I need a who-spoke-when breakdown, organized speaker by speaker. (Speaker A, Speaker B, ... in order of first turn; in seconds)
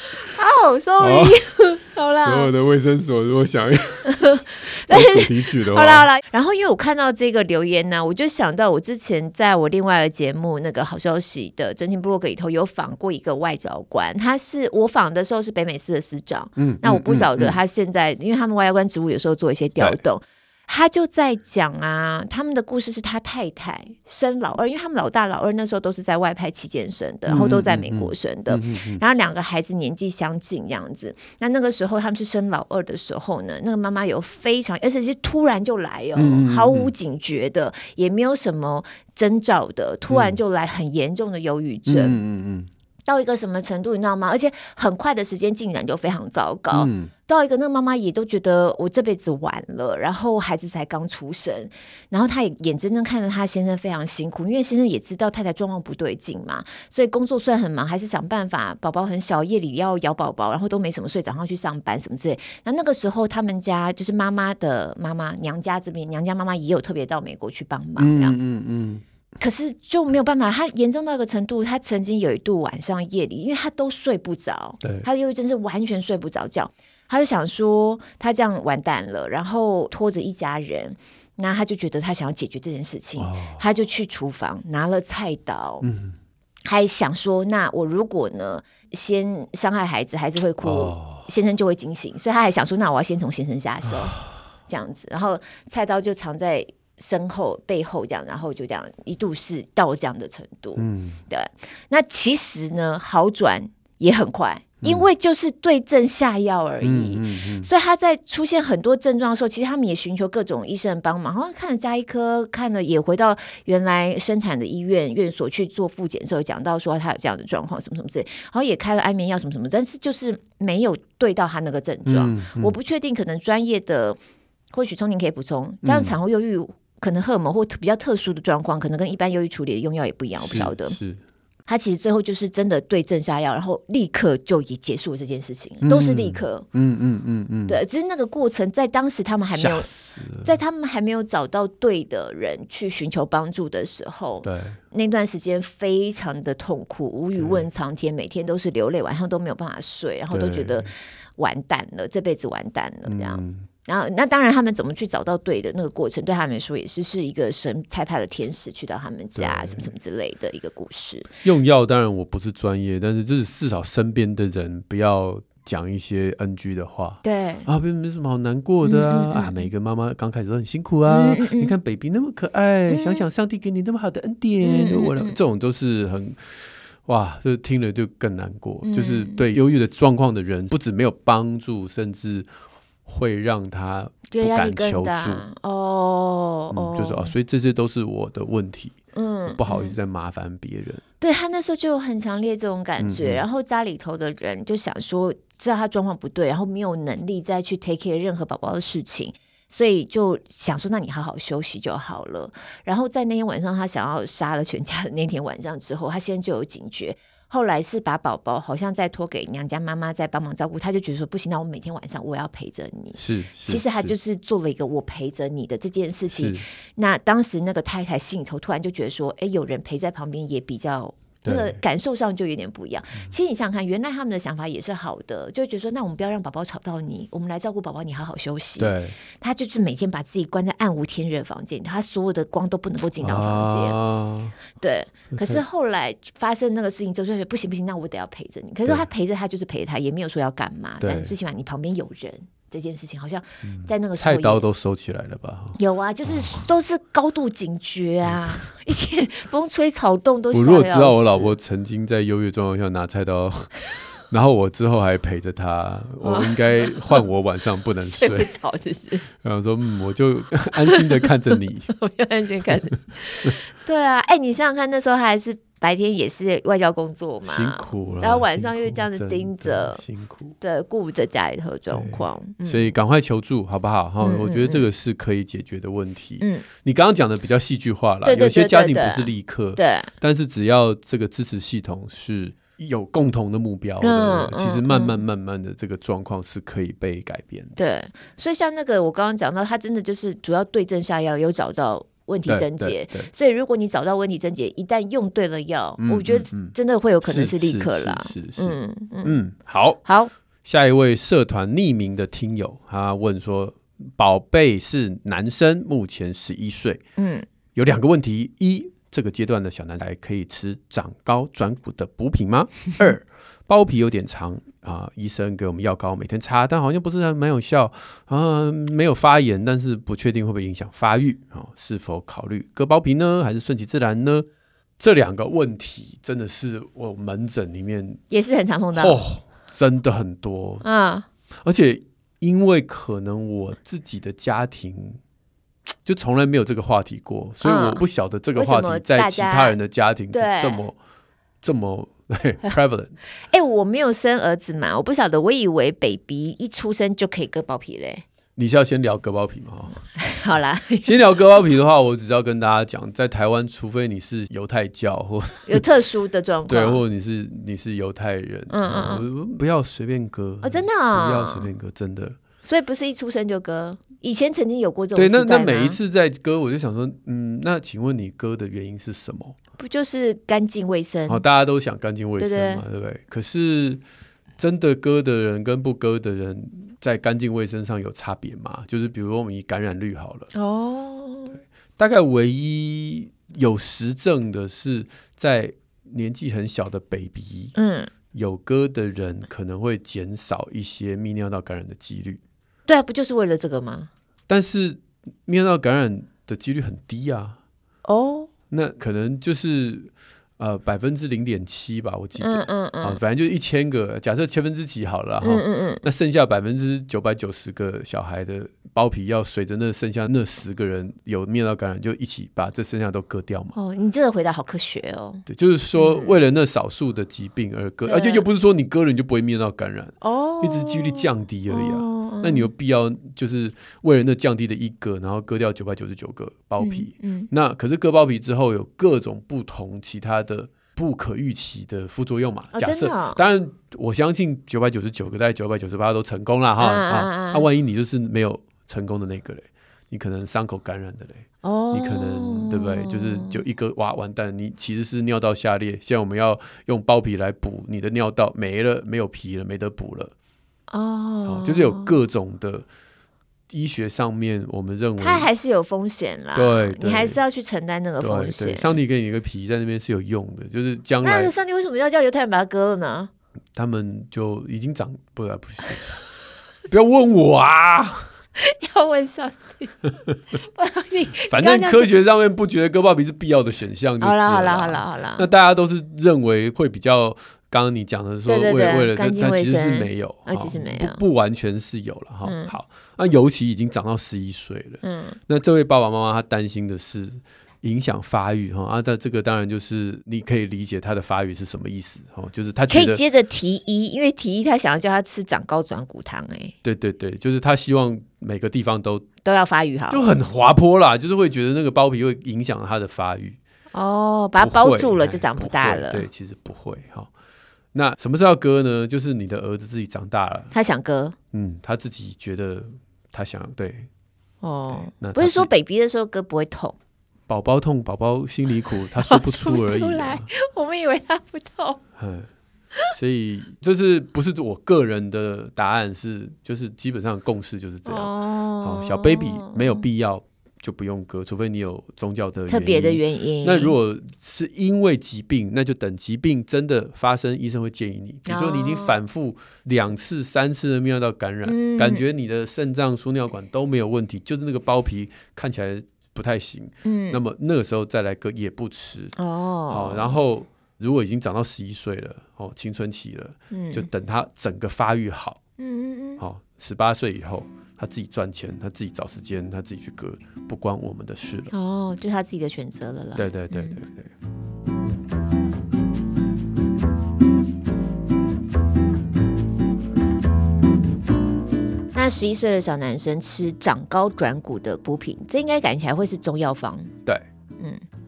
Speaker A: 0.2-2.5, 4.1-42.2, 43.1-68.4, 69.4-85.9, 86.7-124.2, 124.7-130.9, 131.7-136.7, 137.7-139.9, 140.4-161.3, 167.2-167.7, 168.8-169.7, 171.1-171.7, 172.9-173.2, 174.6-175.4, 178.8-179.4, 184.3-187.3, 189.1-189.9, 191.2-234.0, 234.8-244.7, 245.8-251.5, 256.2-257.2, 258.0-259.2, 260.8-261.3, 261.9-270.0, 270.6-272.9, 274.2-274.9, 276.4-276.7, 278.2-280.1, 284.0-285.2, 287.8-299.4, 300.1-300.3, 307.2-307.4, 328.3-329.2, 330.8-331.2, 337.6-338.0, 338.6-339.8, 340.3-340.9, 343.5-348.2, 350.1-351.2, 355.7-357.0, 358.7-359.2, 360.6-361.7, 362.6-366.0, 369.8-371.4, 372.4-372.8, 380.5-381.6, 387.8-388.1, 392.9-394.1, 398.1-398.5, 402.4-403.2, 405.4-406.0, 413.7-416.4, 418.1-418.4, 420.2-422.7, 426.8-427.5, 432.7-433.4, 436.8-437.7, 441.6-443.6, 450.9-452.2, 455.2-459.0, 461.2-463.3, 468.6-470.0, 470.5-472.1, 474.2-475.5, 478.5-481.2, 482.4-482.7, 485.0-485.4, 492.9-496.7, 499.4-500.3, 503.9-506.2, 510.7-511.3, 514.6-516.9, 519.1-522.0, 528.1-530.0, 532.7-534.0, 538.5-539.2, 541.6-542.2, 547.0-547.4, 549.4-550.4, 553.7-554.1, 555.8-556.4, 561.7-564.0, 572.1-577.1
Speaker B: 1.0-1.4, 2.1-6.1, 16.6-17.6, 27.3-29.0, 36.1-36.9, 40.1-40.4, 41.9-42.7, 46.7-47.1, 68.0-69.0, 83.2-83.6, 85.8-86.2, 90.6-91.3, 93.8-94.3, 100.8-101.2, 106.8-107.7, 122.1-122.8, 125.8-126.1, 130.4-131.2, 135.8-137.8, 139.5-140.6, 144.4-144.8, 147.4-147.7, 150.3-150.9, 153.1-153.7, 159.4-159.9, 161.4-176.5, 177.1-182.5, 183.1-185.4, 186.7-191.0, 193.0-193.4, 213.2-214.1, 216.3-216.6, 221.4-221.8, 228.8-229.1, 233.2-234.6, 235.3-235.6, 241.0-241.3, 243.6-246.7, 248.2-248.6, 250.5-258.5, 259.3-261.9, 267.4-270.6, 271.9-287.8, 292.5-293.3, 296.0-300.0, 300.6-307.0, 307.7-324.4, 325.0-328.2, 328.9-330.8, 331.6-335.2, 336.1-340.9, 341.6-343.1, 348.6-350.0, 351.0-355.8, 356.7-362.4, 365.1-369.6, 371.3-374.0, 374.6-380.5, 382.0-387.7, 388.3-392.4, 394.5-397.6, 398.7-413.7, 415.5-450.3, 451.4-452.9, 453.7-455.5, 456.6-457.4, 458.2-461.5, 463.7-466.2, 466.9-468.3, 471.5-493.2, 496.8-499.2, 500.1-503.6, 504.6-507.3, 507.9-510.7, 511.5-514.1, 514.9-515.7, 517.5-520.5, 522.2-522.5, 523.1-549.3, 549.9-555.6, 556.4-561.7, 563.4-564.3